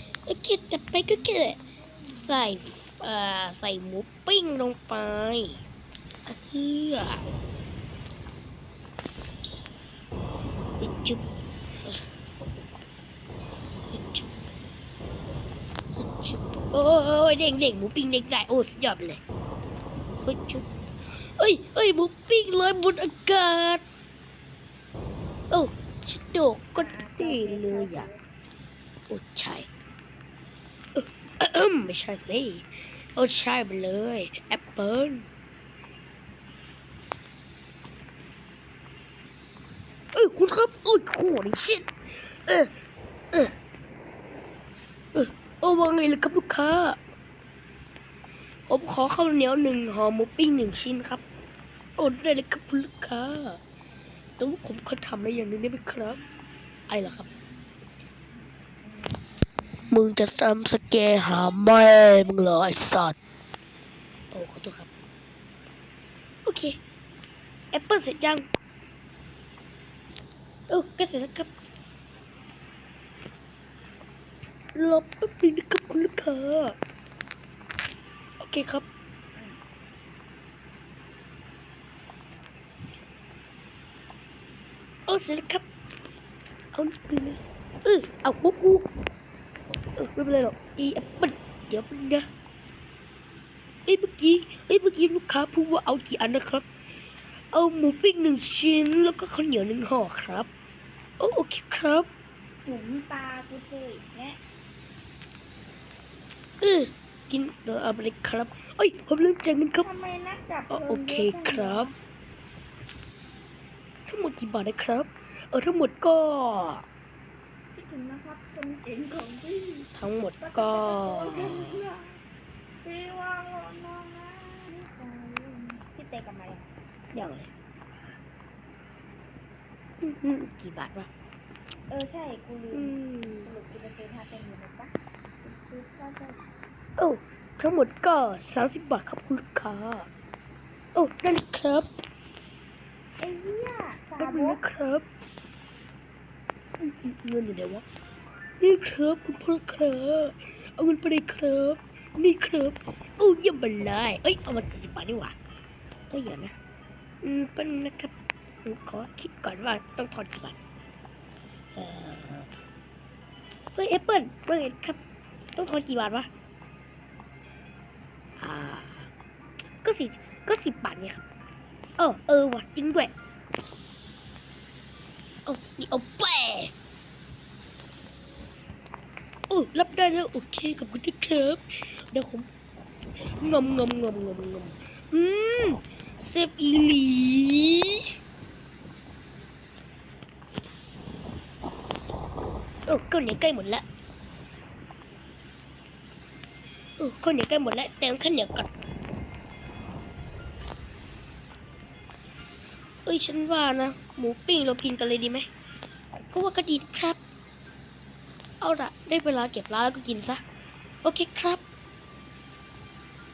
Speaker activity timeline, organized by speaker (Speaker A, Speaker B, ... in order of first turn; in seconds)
Speaker A: 0.3-1.6, 2.2-5.6, 6.3-7.2, 10.8-11.2, 13.9-14.3, 16.0-19.2, 20.2-20.6, 21.3-23.8, 25.5-28.1, 29.1-29.7, 30.9-35.3, 40.1-42.7, 45.1-47.0, 48.7-51.2, 52.0-53.6, 54.4-56.2, 56.9-57.3, 59.9-63.2, 64.3-64.9, 66.4-66.8, 67.7-68.5, 70.7-71.5, 74.7-76.8, 78.4-78.8, 85.1-85.7, 86.7-88.9, 90.0-92.2, 93.8-96.7, 97.5-100.5, 101.2-102.1, 106.6-109.9, 110.7-111.9, 114.1-116.8, 119.9-121.8, 127.1-127.5, 130.0-131.1, 132.7-133.5, 137.0-140.1, 140.9-141.9, 144.2-145.0, 146.8-147.8, 148.6-155.3, 156.1-156.5, 157.2-158.1, 158.6-160.5, 161.7-162.5, 163.7-165.0, 165.6-166.3, 168.4-169.1, 169.8-171.2, 172.0-173.1, 175.5-176.7, 179.5-182.5, 183.4-188.1, 192.9-193.8, 197.0-198.7, 203.1-205.5, 206.1-207.2, 208.6-210.4, 211.0-211.6
Speaker B: 1.3-2.7, 26.7-28.2, 102.7-104.4, 109.8-111.9, 117.7-122.2, 122.8-126.7, 131.9-136.4, 143.2-144.6